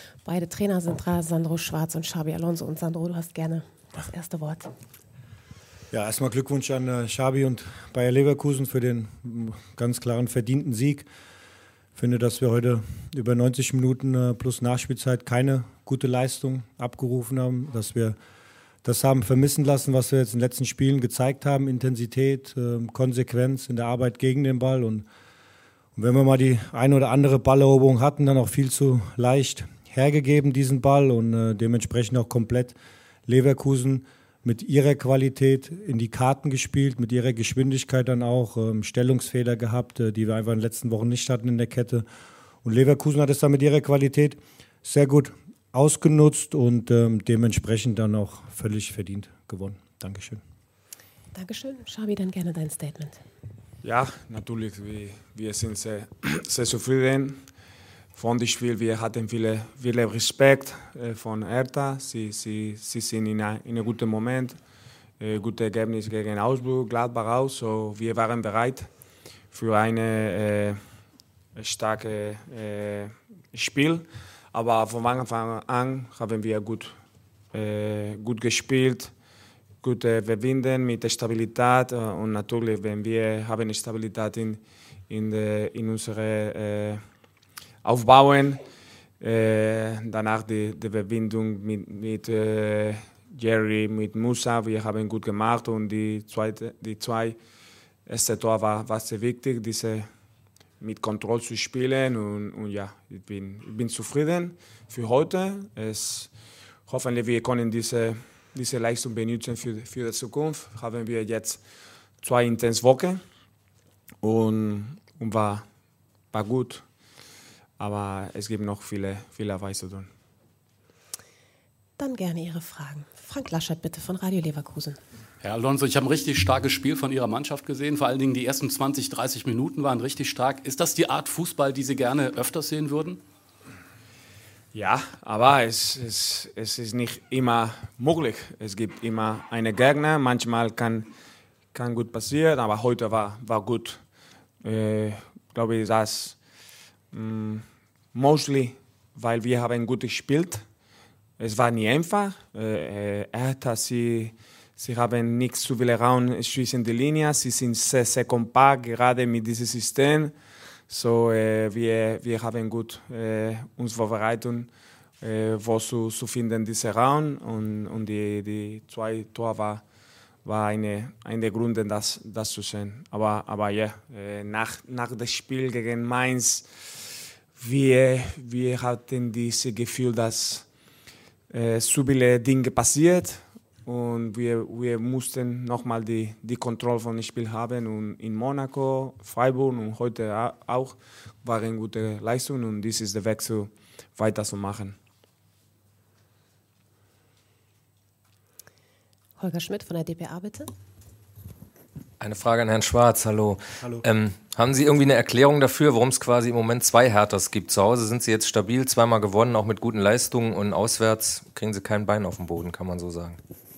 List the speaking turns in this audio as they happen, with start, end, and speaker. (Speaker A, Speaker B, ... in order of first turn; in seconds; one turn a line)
Speaker A: 0.2-4.7
Speaker B: 5.9-11.1
Speaker B: 11.9-18.1
Speaker B: 18.8-25.1
Speaker B: 25.9-42.0
Speaker B: 42.6-50.4
Speaker A: 51.3-53.2
Speaker C: 53.8-57.4
Speaker C: 58.1-64.6
Speaker C: 65.2-68.9
Speaker C: 69.5-70.8
Speaker C: 71.5-77.0
Speaker C: 77.5-79.1
Speaker C: 79.8-87.0
Speaker C: 87.8-88.6
Speaker C: 89.2-97.3
Speaker C: 98.1-100.0
Speaker C: 100.8-106.3
Speaker C: 106.9-111.6
Speaker C: 112.2-113.2
Speaker C: 114.2-115.6
Speaker C: 116.3-116.8
Speaker C: 117.8-120.1
Speaker A: 122.0-125.0
Speaker D: 125.5-133.2
Speaker C: 134.7-141.1
Speaker C: 141.7-144.0
Speaker C: 144.6-146.4
Speaker C: 147.1-147.6
Speaker C: 148.1-150.6
Speaker C: 151.4-160.3
Speaker C: 160.9-164.7
Speaker C: 165.2-169.8
Speaker C: 170.4-176.7
Speaker C: 177.6-180.7
Speaker C: 181.5-194.9
Speaker A: 199.4-200.7
Speaker E: 202.2-213.4